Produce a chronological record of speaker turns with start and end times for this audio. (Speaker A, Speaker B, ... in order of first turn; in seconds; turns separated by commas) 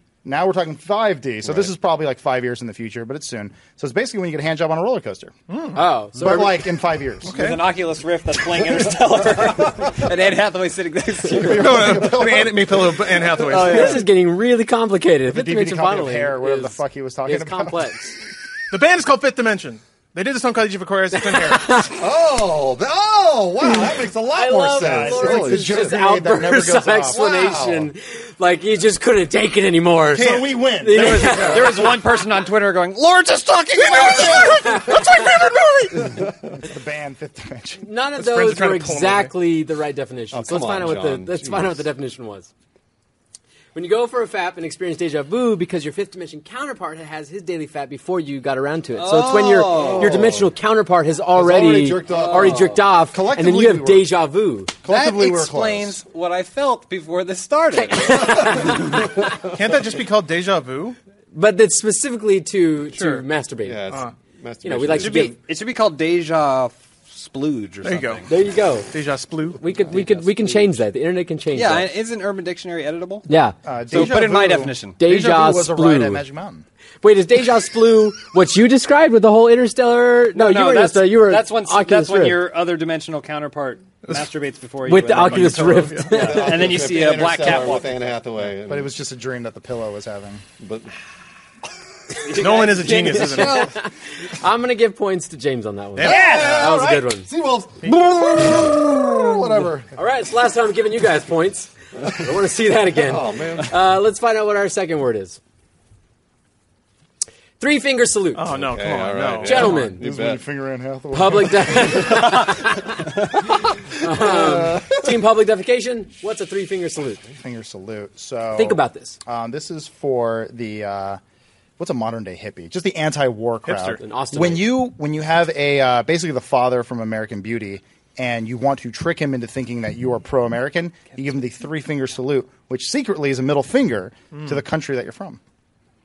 Speaker A: 0.2-5.3, Speaker B: 1.4-1.7, Speaker C: 5.5-5.8, Speaker D: 5.8-6.7, Speaker A: 6.2-7.4, Speaker C: 7.3-7.6, Speaker E: 7.3-12.2, Speaker B: 11.3-13.0, Speaker C: 11.5-14.0, Speaker D: 13.5-18.1, Speaker E: 13.5-14.1, Speaker A: 15.3-17.9, Speaker C: 18.7-21.9, Speaker D: 21.1-22.0, Speaker B: 22.0-26.0, Speaker D: 24.3-31.9, Speaker A: 24.8-27.2, Speaker B: 27.1-27.9, Speaker A: 30.1-31.8, Speaker E: 30.9-34.9, Speaker C: 33.8-36.2, Speaker A: 36.6-37.8, Speaker D: 37.8-42.5, Speaker C: 38.2-39.3, Speaker B: 40.3-41.8, Speaker D: 43.8-54.7, Speaker E: 49.0-50.3, Speaker B: 49.7-50.5, Speaker B: 51.4-54.0, Speaker E: 52.1-52.8, Speaker A: 53.7-54.0, Speaker A: 54.8-56.0, Speaker E: 54.9-58.8, Speaker D: 57.9-58.8, Speaker C: 59.4-61.0, Speaker D: 61.3-63.8, Speaker C: 62.9-63.2, Speaker B: 63.6-65.3, Speaker D: 64.6-65.4, Speaker E: 65.0-68.3, Speaker C: 67.8-68.2, Speaker D: 68.3-68.9, Speaker C: 68.9-69.6, Speaker D: 69.6-71.9, Speaker B: 70.2-70.5, Speaker E: 71.5-73.3, Speaker D: 73.3-73.6, Speaker A: 73.6-76.7, Speaker E: 73.9-75.0, Speaker C: 73.9-74.7, Speaker D: 75.0-76.2, Speaker D: 77.0-82.4, Speaker E: 80.3-88.0, Speaker D: 84.9-86.5, Speaker C: 85.2-86.3, Speaker B: 86.1-88.9, Speaker A: 88.6-90.4, Speaker B: 90.6-90.9, Speaker D: 92.2-97.3, Speaker C: 92.3-93.7, Speaker E: 92.6-93.7, Speaker C: 96.0-96.7, Speaker B: 96.0-99.9, Speaker D: 99.9-105.4, Speaker B: 103.0-103.8, Speaker D: 107.6-108.5, Speaker C: 108.3-109.9, Speaker B: 108.5-110.4, Speaker D: 109.4-110.0, Speaker A: 109.7-112.2, Speaker D: 111.1-113.0, Speaker D: 114.0-117.2, Speaker B: 114.1-115.1, Speaker A: 117.4-121.2, Speaker D: 118.6-119.2, Speaker A: 121.8-135.4, Speaker C: 123.7-124.0, Speaker D: 124.0-124.7